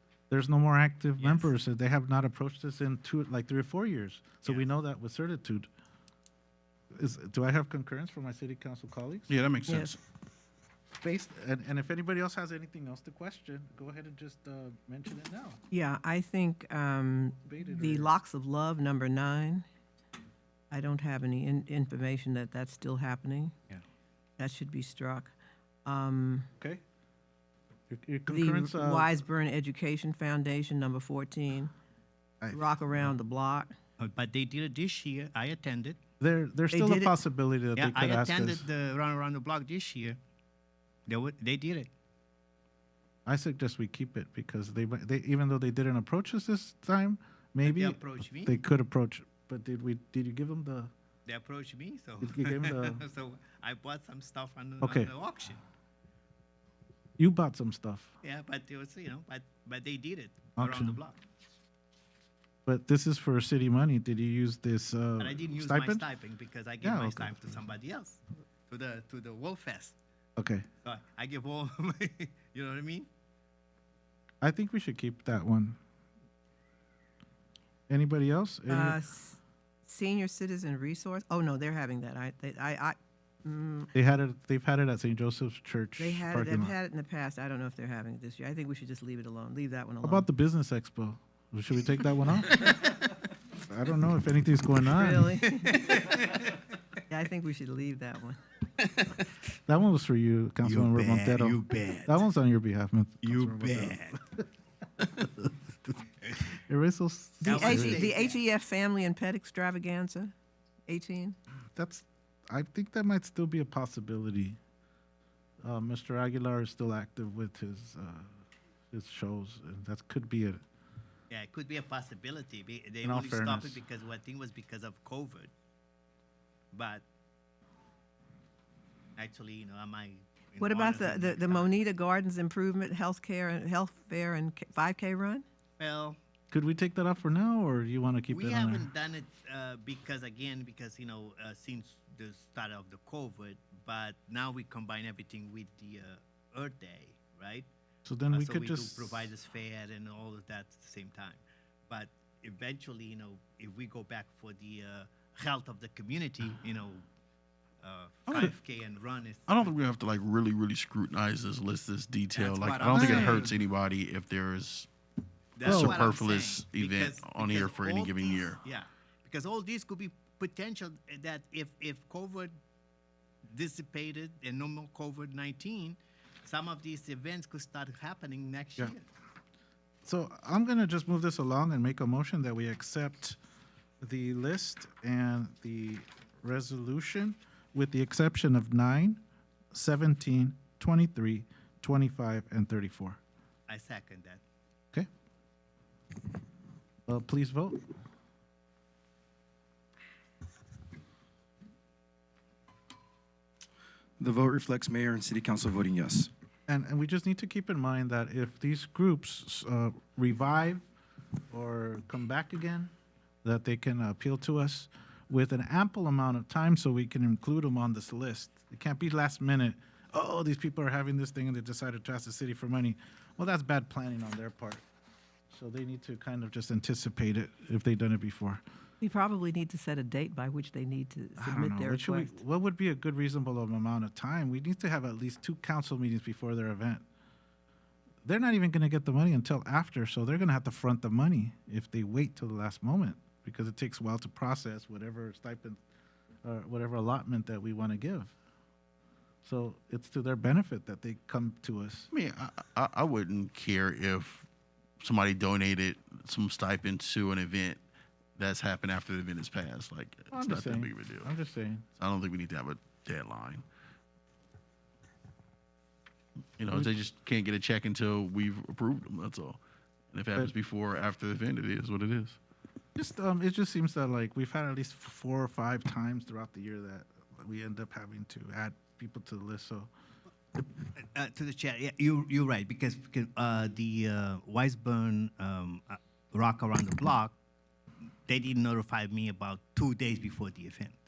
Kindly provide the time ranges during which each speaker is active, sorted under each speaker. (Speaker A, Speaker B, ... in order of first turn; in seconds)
Speaker A: 0.3-5.7, 6.9-9.3, 10.9-15.6, 17.4-18.1, 27.9-29.2, 32.4-32.7, 36.2-38.7, 43.2-50.9, 52.2-53.0, 54.8-55.1, 57.2-58.1, 60.5-61.0, 62.6-66.0, 66.8-67.6, 70.4-70.7, 74.4-75.8, 77.9-79.0, 83.9-86.7, 90.0-92.6, 93.6-95.3, 99.7-104.4, 106.6-108.1, 111.7-114.6, 115.6-118.4, 118.9-120.6, 123.0-123.8, 136.5-138.9, 148.0-149.3, 162.9-163.4, 165.6-166.0, 180.0-183.4, 184.0-189.2, 189.7-193.2, 197.1-197.8, 206.7-210.8, 211.5-212.9, 213.4-224.8, 225.5-228.6, 231.4-237.0, 238.2-245.8, 246.4-248.3, 249.4-252.1, 260.3-261.8, 272.9-279.9
Speaker B: 1.2-1.5, 34.0-36.0, 37.8-40.2, 41.1-41.9, 47.6-48.6, 51.2-55.6, 58.2-61.2, 65.2-70.0, 70.8-73.1, 95.4-96.6, 100.6-102.3, 103.2-104.2, 107.4-108.4, 121.3-125.5, 126.7-127.0, 129.2-131.7, 135.8-136.2, 138.3-147.7, 148.3-157.1, 157.8-159.7, 162.3-163.6, 165.6-172.5, 173.5-179.0, 193.7-194.4, 280.9-287.3, 288.3-291.0
Speaker C: 9.3-10.0, 159.5-164.9, 165.6-168.6, 252.1-254.5, 255.0-257.8, 258.4-261.3, 261.9-263.6, 266.6-269.6, 270.1-272.4
Speaker D: 9.7-9.9, 15.7-19.6, 20.7-23.5, 24.4-25.3, 25.8-26.5, 28.3-31.7, 32.5-33.7, 36.7-37.1, 78.7-83.9, 86.0-90.3, 94.8-95.7, 97.1-98.4, 107.4-110.3, 110.9-111.3, 130.6-135.4, 229.0-232.4
Speaker E: 204.2-206.3